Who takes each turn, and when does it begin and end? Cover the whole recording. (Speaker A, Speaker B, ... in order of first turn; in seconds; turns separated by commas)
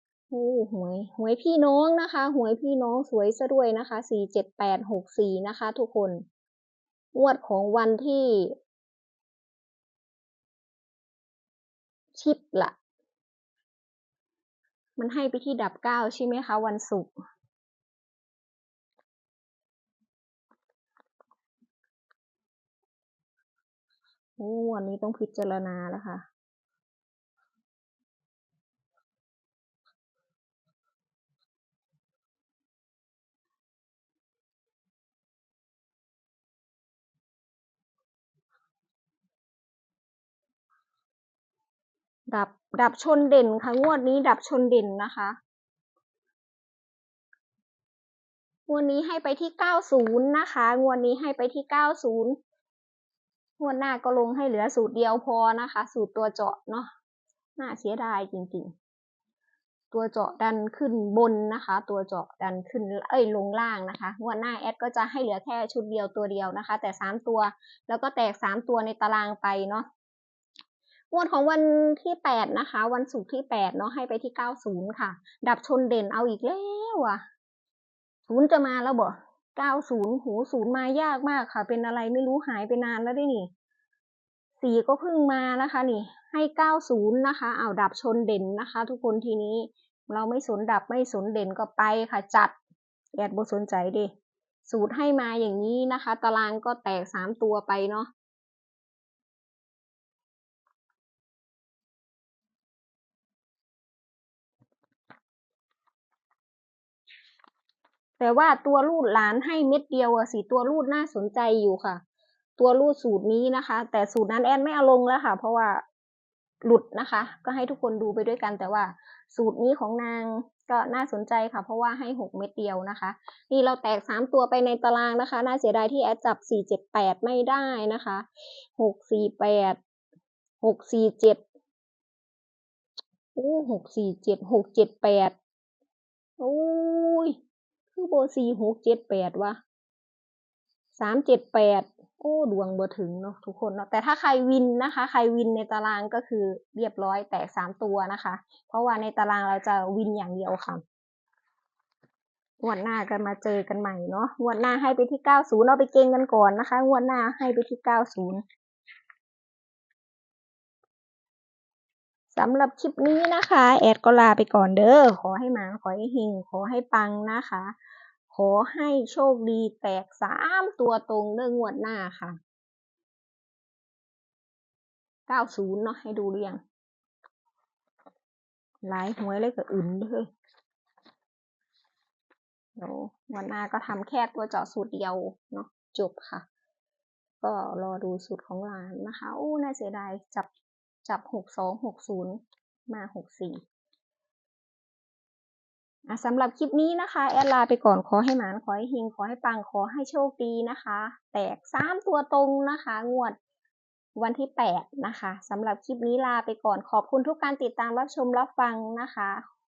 Speaker A: 0.3-6.2, Speaker A: 7.1-8.6, Speaker A: 12.2-12.7, Speaker A: 15.0-17.1, Speaker A: 24.4-26.2, Speaker A: 42.3-45.4, Speaker A: 48.7-52.4, Speaker A: 53.6-56.9, Speaker A: 57.6-58.7, Speaker A: 59.9-69.9, Speaker A: 71.1-77.2, Speaker A: 78.3-83.5, Speaker A: 84.6-92.5, Speaker A: 93.2-94.1, Speaker A: 94.6-98.1, Speaker A: 108.2-112.0, Speaker A: 112.6-115.8, Speaker A: 116.6-128.2, Speaker A: 128.8-129.8, Speaker A: 130.6-131.4, Speaker A: 133.3-135.3, Speaker A: 136.4-137.3, Speaker A: 137.9-139.6, Speaker A: 141.0-150.8, Speaker A: 152.6-158.4, Speaker A: 162.3-167.7, Speaker A: 168.3-172.4, Speaker A: 175.3-176.6, Speaker A: 178.8-180.3, Speaker A: 182.8-186.4, Speaker A: 187.4-190.5, Speaker A: 191.1-193.6, Speaker A: 196.1-203.4, Speaker A: 204.2-209.4